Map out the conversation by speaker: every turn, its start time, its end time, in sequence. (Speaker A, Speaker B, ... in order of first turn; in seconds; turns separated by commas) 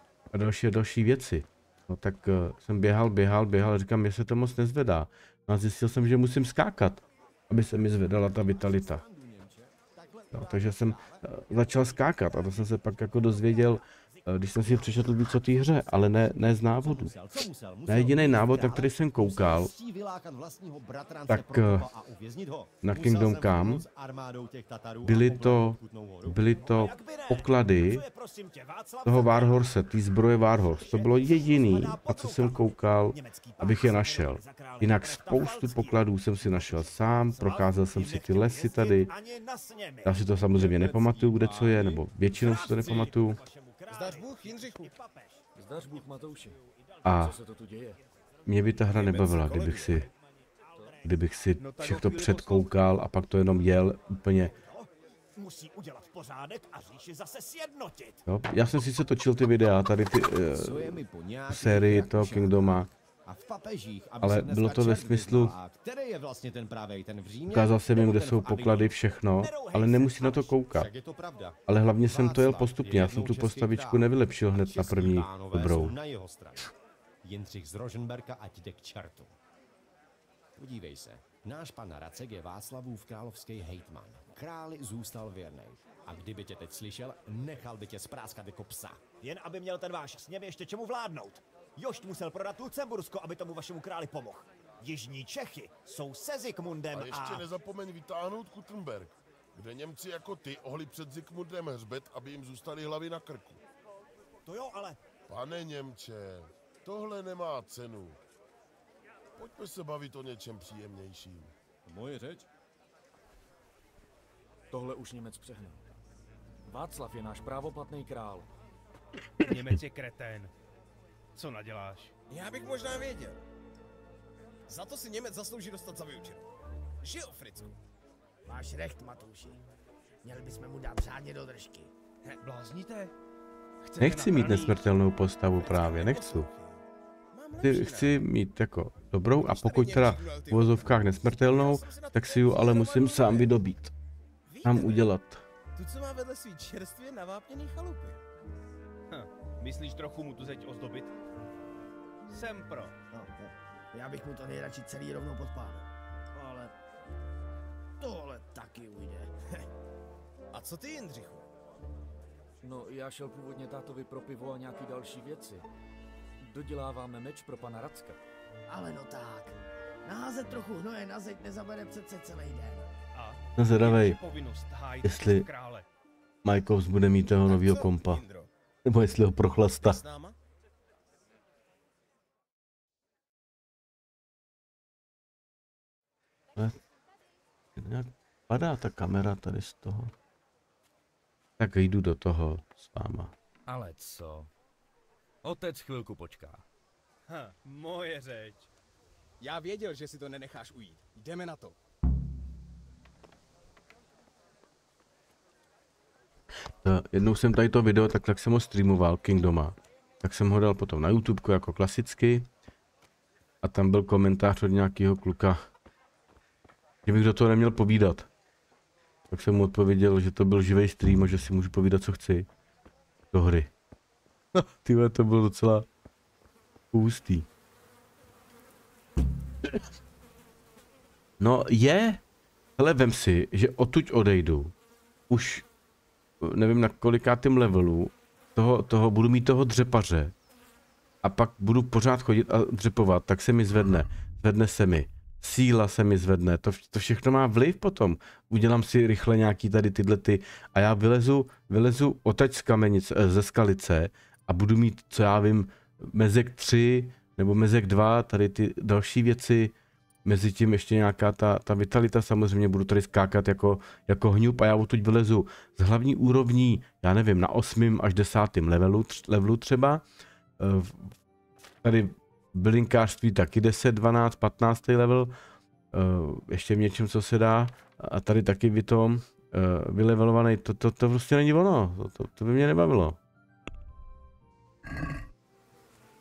Speaker A: 0.3-9.0, Speaker B: 8.1-10.9, Speaker A: 10.3-17.1, Speaker B: 16.8-26.4, Speaker A: 17.9-19.7, Speaker A: 21.3-21.9, Speaker A: 22.8-23.9, Speaker A: 25.0-28.1, Speaker C: 26.7-29.7, Speaker A: 29.1-39.1, Speaker C: 30.7-36.8, Speaker C: 37.3-40.2, Speaker A: 40.0-43.4, Speaker D: 40.6-42.0, Speaker C: 42.3-45.5, Speaker D: 43.9-44.9, Speaker E: 45.6-46.6, Speaker C: 46.7-47.0, Speaker A: 47.0-47.4, Speaker E: 47.1-48.0, Speaker A: 48.5-50.1, Speaker C: 49.1-49.5, Speaker B: 49.6-49.8, Speaker A: 51.0-54.6, Speaker D: 51.7-52.6, Speaker C: 54.5-58.2, Speaker A: 58.3-62.9, Speaker B: 60.5-76.7, Speaker A: 64.2-65.5, Speaker A: 67.5-70.9, Speaker A: 71.7-76.0, Speaker B: 77.2-79.3, Speaker B: 80.6-89.1, Speaker C: 89.1-97.5, Speaker F: 96.9-103.6, Speaker C: 104.4-105.0, Speaker F: 105.3-108.2, Speaker F: 109.4-111.5, Speaker E: 114.7-115.8, Speaker E: 116.7-118.5, Speaker G: 119.5-120.5, Speaker G: 121.4-122.1, Speaker D: 122.3-123.4, Speaker D: 124.7-126.4, Speaker D: 127.0-127.7, Speaker H: 128.5-129.6, Speaker H: 130.2-131.9, Speaker D: 132.4-133.1, Speaker D: 134.0-134.8, Speaker A: 134.0-136.5, Speaker D: 135.6-136.8, Speaker D: 137.3-138.2, Speaker A: 137.6-143.9, Speaker D: 139.4-143.5, Speaker C: 144.5-144.8, Speaker A: 144.6-145.4, Speaker D: 144.7-145.0, Speaker D: 145.8-148.2, Speaker G: 149.1-151.1, Speaker G: 152.3-152.9, Speaker H: 153.1-156.7, Speaker H: 158.0-159.3, Speaker D: 160.5-161.5, Speaker E: 162.6-165.7, Speaker E: 166.4-168.2, Speaker H: 168.7-172.9, Speaker D: 173.2-175.8, Speaker A: 173.6-174.2, Speaker A: 175.0-175.5, Speaker A: 176.4-178.2, Speaker D: 177.3-178.5, Speaker A: 178.9-180.0, Speaker D: 179.8-180.4, Speaker A: 187.8-190.1, Speaker A: 191.6-193.3, Speaker E: 193.7-194.5, Speaker E: 195.4-196.7, Speaker D: 197.3-198.1, Speaker G: 197.8-198.6, Speaker D: 199.4-201.8, Speaker A: 206.8-212.5, Speaker A: 213.6-215.6, Speaker A: 217.1-218.3, Speaker A: 219.3-222.5, Speaker A: 223.3-223.7, Speaker A: 224.6-225.9, Speaker A: 226.9-227.5, Speaker A: 231.4-232.2, Speaker A: 232.8-234.7, Speaker A: 235.3-235.7, Speaker A: 236.4-240.3, Speaker A: 241.2-259.7, Speaker A: 260.2-270.0, Speaker A: 270.6-271.1, Speaker A: 271.8-275.3, Speaker A: 275.9-283.2